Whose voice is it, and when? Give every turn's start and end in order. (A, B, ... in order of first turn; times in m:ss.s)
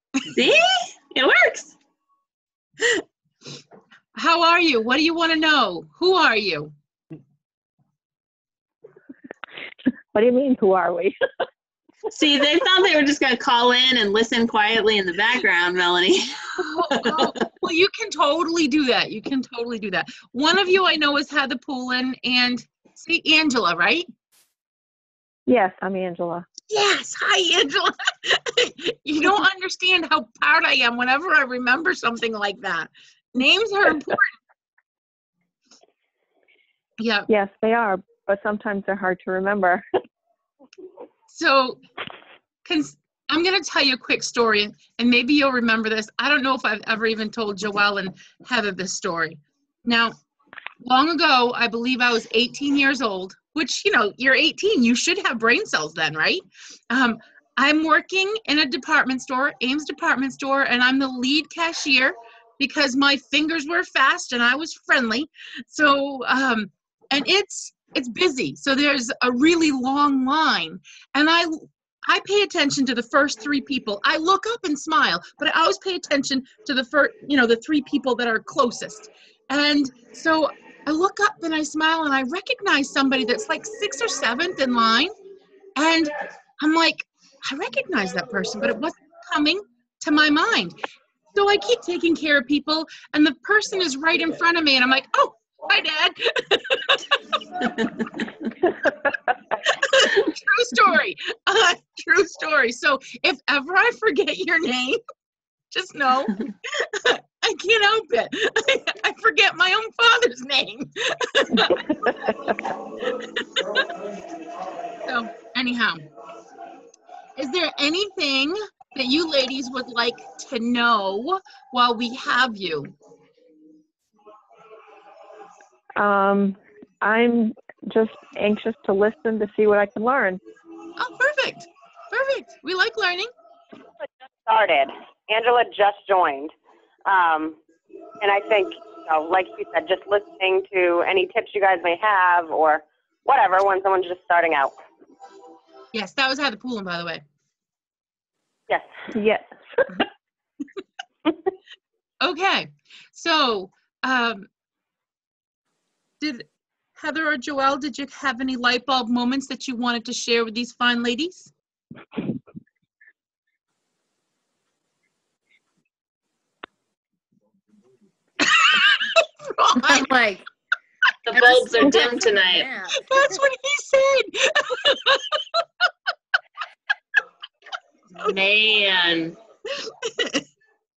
0:00.3-0:01.8 A
0:04.2-0:06.7 B
0:10.1-0:11.2 C
0:12.1-0:17.3 A
0:16.6-0:24.1 B
0:25.5-0:26.4 C
0:26.7-0:34.4 B
0:37.0-0:37.3 B
0:37.3-0:39.8 C
0:41.3-0:41.8 B
0:42.6-0:50.1 B
0:50.8-1:25.1 B
1:25.8-1:30.8 B
1:31.3-1:37.8 B
1:37.6-1:38.2 A
1:39.6-1:45.0 B
1:45.7-1:52.5 B
1:51.6-1:52.6 C
1:53.1-1:53.9 B
1:55.0-1:56.0 B
1:57.4-2:02.9 B
2:06.0-2:10.4 C
2:11.0-2:13.3 B
2:14.4-2:16.5 D
2:17.0-2:17.6 D
2:18.2-2:24.8 D
2:25.9-2:27.2 B
2:29.1-2:30.0 C
2:32.2-2:34.5 B
2:36.2-2:41.5 B
2:48.4-2:50.1 B
2:49.8-2:50.5 E
2:51.2-2:52.7 A
2:51.3-2:53.4 E
2:53.0-2:55.6 B
2:58.2-2:59.4 A
2:59.7-3:00.4 B